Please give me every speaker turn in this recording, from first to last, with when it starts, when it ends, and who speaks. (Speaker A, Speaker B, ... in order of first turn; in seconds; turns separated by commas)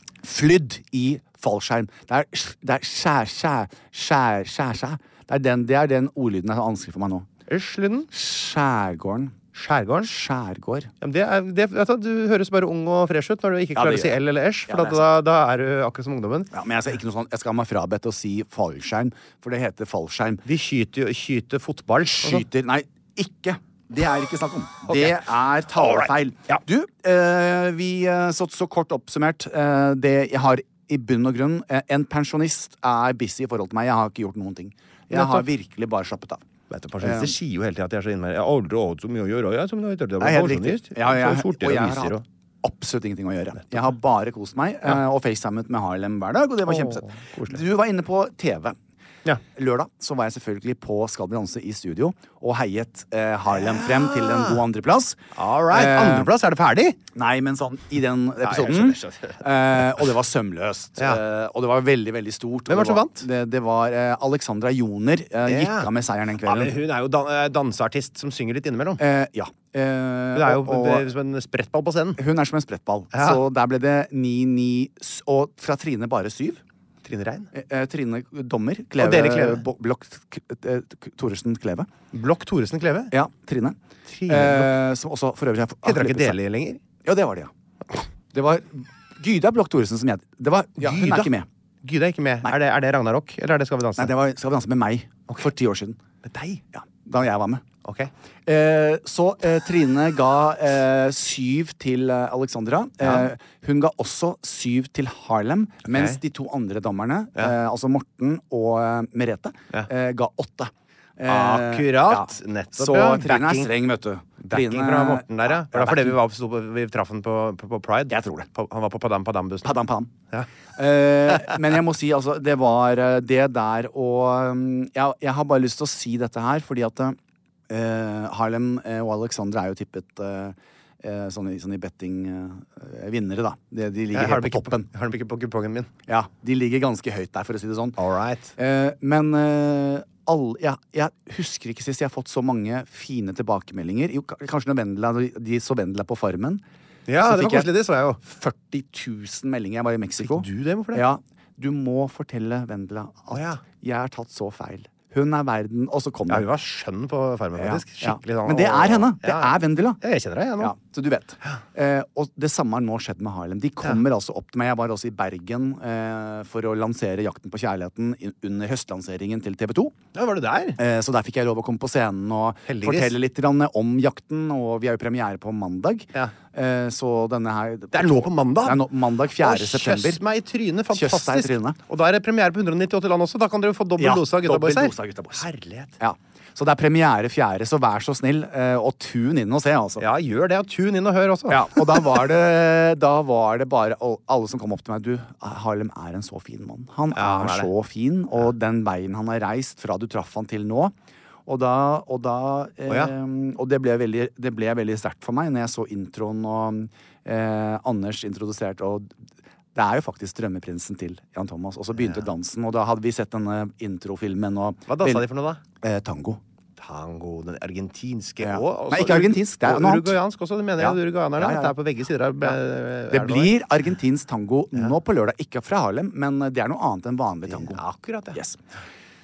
Speaker A: 0.2-7.3, Speaker B: 7.5-8.1, Speaker A: 8.1-9.3, Speaker B: 9.5-10.1, Speaker A: 10.0-10.9, Speaker B: 11.0-16.5, Speaker A: 13.8-15.0, Speaker A: 16.5-20.4, Speaker B: 20.4-22.4, Speaker A: 22.1-36.4, Speaker B: 24.9-25.2, Speaker B: 25.8-26.6, Speaker B: 35.1-35.5, Speaker B: 36.7-42.2, Speaker A: 37.0-37.3, Speaker A: 40.2-48.7, Speaker B: 46.6-47.6, Speaker A: 49.5-56.3, Speaker B: 53.5-54.6, Speaker B: 55.3-57.0, Speaker A: 57.1-66.8, Speaker B: 58.4-60.0, Speaker B: 62.7-63.2, Speaker B: 65.5-65.9, Speaker B: 66.4-69.0, Speaker A: 69.0-71.1, Speaker B: 70.3-72.2, Speaker A: 72.2-76.6, Speaker B: 73.1-73.4, Speaker B: 77.0-77.5, Speaker A: 77.5-81.9, Speaker B: 79.0-79.7, Speaker B: 82.1-83.1, Speaker A: 83.1-86.4, Speaker B: 84.1-84.7, Speaker B: 85.8-86.8, Speaker A: 87.0-87.5, Speaker A: 88.3-91.5, Speaker B: 90.8-91.3, Speaker B: 91.8-94.1, Speaker A: 94.0-96.0, Speaker B: 96.2-96.6, Speaker A: 96.7-97.6, Speaker B: 97.8-98.1, Speaker A: 98.5-116.2, Speaker B: 103.0-103.3, Speaker B: 105.8-106.2, Speaker B: 111.2-113.7, Speaker B: 114.4-119.7, Speaker A: 118.1-118.5, Speaker A: 119.6-120.1, Speaker A: 120.7-127.2, Speaker A: 127.7-134.9, Speaker B: 134.1-135.9, Speaker A: 136.1-138.0, Speaker B: 138.0-138.5, Speaker A: 138.6-146.6, Speaker B: 147.1-148.2, Speaker A: 147.2-156.4, Speaker B: 150.2-151.0, Speaker B: 153.3-153.6, Speaker B: 156.3-160.7, Speaker A: 157.6-160.0, Speaker A: 160.6-169.9, Speaker B: 170.1-170.8, Speaker A: 170.8-180.2, Speaker B: 172.7-173.2, Speaker B: 177.9-178.9, Speaker B: 179.4-186.0, Speaker A: 180.9-181.8, Speaker A: 184.0-185.4, Speaker A: 186.0-190.0, Speaker B: 190.0-192.0, Speaker A: 191.5-200.9, Speaker B: 197.1-197.7, Speaker A: 201.4-209.1, Speaker B: 202.9-203.1, Speaker A: 209.7-215.3, Speaker B: 212.0-212.2, Speaker B: 214.9-215.6, Speaker A: 215.8-216.4, Speaker B: 216.8-223.6, Speaker A: 218.4-220.2, Speaker A: 220.8-221.8, Speaker A: 223.1-227.8, Speaker B: 227.5-228.4, Speaker A: 228.3-228.6